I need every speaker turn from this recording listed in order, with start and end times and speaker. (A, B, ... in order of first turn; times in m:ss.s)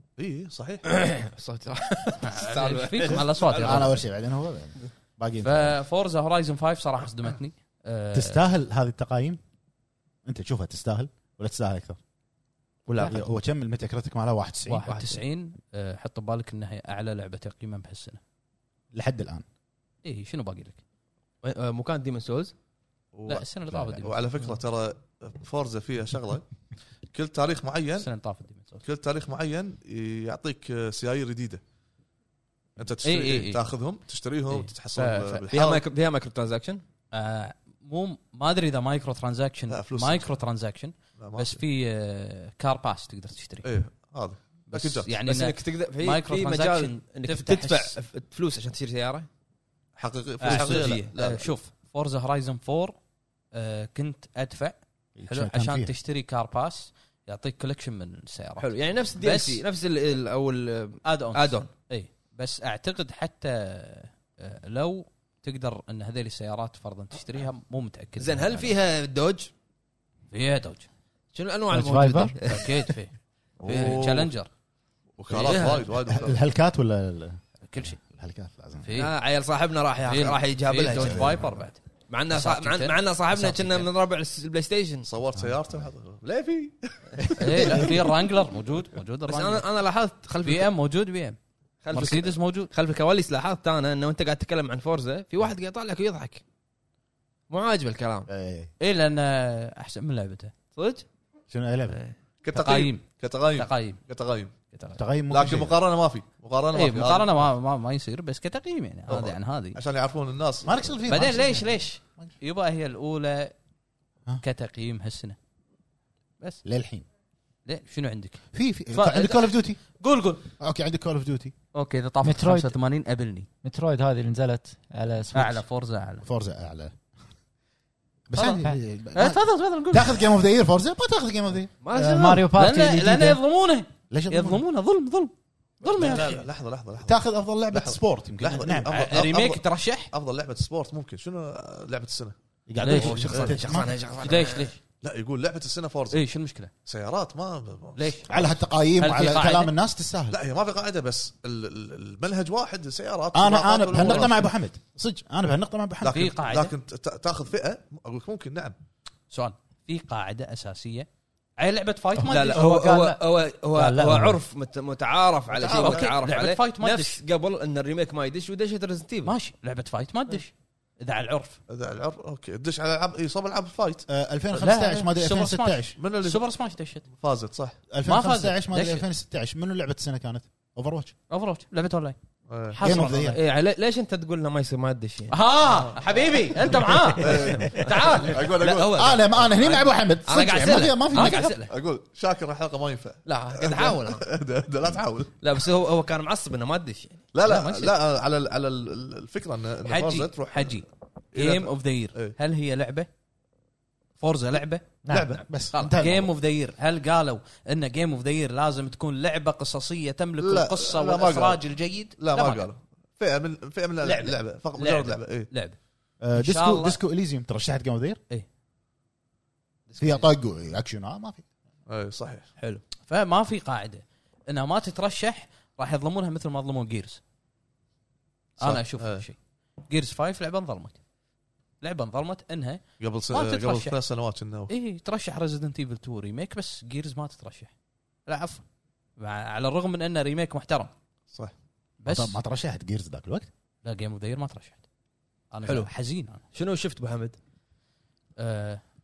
0:00.2-0:00.8 A
0:00.9-0:03.9 B
0:02.2-0:04.0 C
0:03.6-0:05.8 D
0:05.4-0:08.4 C
0:08.1-0:09.4 D
0:10.2-0:12.0 D
0:12.9-0:13.2 B
0:13.0-0:14.9 D
0:14.7-0:18.2 C
0:14.8-0:15.2 B
0:18.9-0:19.4 D
0:20.0-0:20.8 C
0:21.4-0:22.5 B
0:23.1-0:23.5 A
0:23.3-0:24.2 C
0:24.0-0:26.5 A
0:27.1-0:28.1 A
0:28.0-0:28.8 C
0:28.8-0:31.6 A
0:32.8-0:35.8 A
0:33.0-0:33.6 C
0:34.5-0:35.5 C
0:35.5-0:36.8 B
0:37.1-0:43.7 C
0:39.7-0:40.3 A
0:41.2-0:41.6 A
0:43.6-0:45.1 A
0:44.7-0:48.0 C
0:45.2-0:49.3 B
0:50.0-0:51.5 A
0:50.4-0:53.0 C
0:50.4-0:51.1 B
0:53.5-0:59.6 C
0:55.2-0:55.9 D
0:58.6-1:01.7 B
1:01.0-1:08.7 C
1:08.2-1:09.5 B
1:10.3-1:10.9 C
1:11.3-1:12.9 B
1:11.7-1:12.3 E
1:12.4-1:13.1 C
1:13.6-1:14.3 A
1:13.6-1:14.5 C
1:13.7-1:14.0 B
1:15.2-1:16.4 A
1:15.3-1:15.9 B
1:16.1-1:18.9 D
1:17.7-1:18.0 C
1:18.8-1:19.1 C
1:18.9-1:21.3 B
1:20.0-1:23.9 C
1:22.1-1:25.1 B
1:25.0-1:28.1 A
1:25.3-1:25.9 D
1:27.4-1:29.6 C
1:27.6-1:27.9 B
1:29.3-1:30.7 B
1:30.4-1:31.4 C
1:31.8-1:36.4 B
1:31.9-1:32.7 C
1:37.5-1:38.3 B
1:38.3-1:38.7 D
1:38.8-1:40.5 C
1:40.7-1:41.0 B
1:41.5-1:42.0 D
1:42.4-1:44.5 A
1:42.5-1:44.0 C
1:44.7-1:45.0 C
1:45.0-1:45.8 D
1:45.3-1:47.5 A
1:46.7-1:49.8 C
1:49.1-1:50.8 A
1:50.6-1:52.3 D
1:51.1-1:53.5 C
1:54.4-1:55.4 C
1:56.6-1:57.0 D
1:57.6-2:00.4 C
1:58.5-1:59.8 D
2:00.6-2:01.5 D
2:01.7-2:03.5 C
2:02.2-2:02.7 E
2:03.6-2:05.6 E
2:05.3-2:06.2 C
2:06.2-2:07.0 D
2:08.3-2:12.4 D
2:08.3-2:10.2 C
2:11.8-2:12.4 B
2:12.0-2:13.4 E
2:12.5-2:16.4 C
2:14.1-2:14.6 D
2:15.8-2:22.3 A
2:17.0-2:19.2 D
2:18.9-2:20.1 C
2:22.7-2:24.0 D
2:22.8-2:23.6 C
2:22.9-2:24.7 B
2:23.0-2:23.5 A
2:24.2-2:24.8 C
2:25.0-2:26.2 A
2:26.1-2:26.7 C
2:26.8-2:28.5 A
2:28.0-2:29.7 C
2:28.3-2:30.4 D
2:30.3-2:34.4 A
2:33.3-2:36.3 D
2:36.0-2:38.7 A
2:36.0-2:36.7 C
2:39.3-2:42.6 C
2:42.2-2:42.6 D
2:42.2-2:49.3 B
2:42.5-2:43.2 E
2:43.7-2:44.4 E
2:45.5-2:46.1 A
2:45.6-2:47.2 C
2:49.2-2:51.6 C
2:51.7-2:54.0 A
2:54.1-2:55.9 D
2:54.5-2:57.0 C
2:56.0-2:56.4 A
2:57.1-2:57.8 A
2:57.9-3:01.1 D
2:58.0-2:59.0 C
3:01.3-3:02.2 C
3:02.5-3:02.8 A
3:02.7-3:03.4 C
3:02.8-3:03.4 D
3:03.3-3:05.4 B
3:05.3-3:08.5 C
3:06.8-3:11.7 B
3:07.2-3:09.1 A
3:08.9-3:11.5 D
3:11.1-3:11.5 C
3:11.7-3:15.6 A
3:13.2-3:14.2 B
3:15.4-3:17.2 B
3:17.3-3:20.8 A
3:17.4-3:17.9 C
3:19.8-3:23.1 C
3:21.3-3:22.3 A
3:24.2-3:25.0 C
3:25.0-3:25.4 E
3:25.1-3:26.3 D
3:25.7-3:32.7 C
3:30.4-3:31.6 A
3:32.2-3:35.5 A
3:34.0-3:35.8 C
3:36.2-3:38.2 D
3:36.3-3:37.0 C
3:39.9-3:40.3 C
3:40.0-3:41.4 D
3:41.9-3:42.5 A
3:43.0-3:47.2 C
3:48.6-3:51.0 C
3:48.6-3:49.2 A
3:51.8-3:54.0 C
3:53.0-3:54.7 A
3:54.7-3:57.7 C
3:58.2-3:58.6 C
3:59.2-4:00.9 C
4:02.0-4:02.4 C
4:02.1-4:03.5 D
4:03.8-4:04.8 C
4:05.5-4:06.4 C
4:05.6-4:05.9 B
4:06.4-4:07.4 B
4:08.4-4:08.8 C